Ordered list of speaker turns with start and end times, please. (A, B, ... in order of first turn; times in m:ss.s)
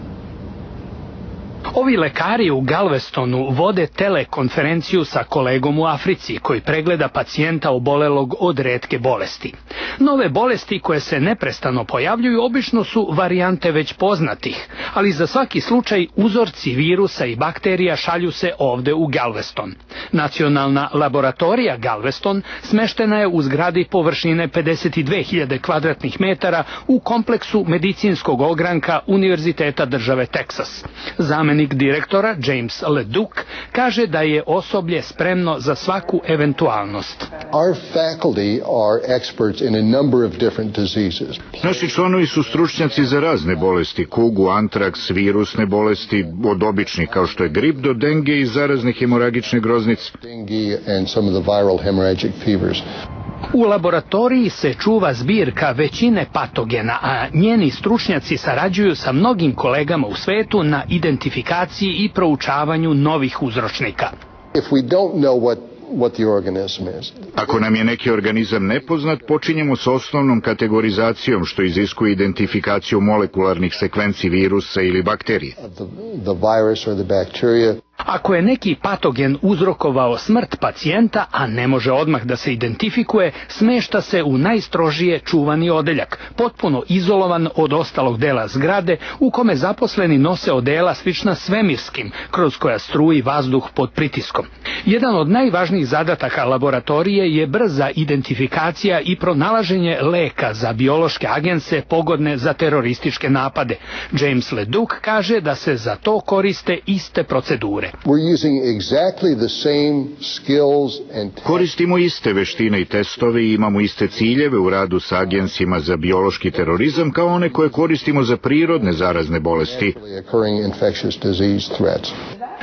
0:01.7-0:37.3 A
0:37.5-0:41.7 B
0:41.6-0:50.1 C
0:46.5-0:52.8 B
0:53.5-1:04.1 A
1:04.5-1:07.4 B
1:07.4-1:15.6 C
1:15.6-1:17.8 B
1:18.0-1:47.9 A
1:48.0-1:51.7 B
1:51.4-2:00.0 C
1:59.7-2:02.2 B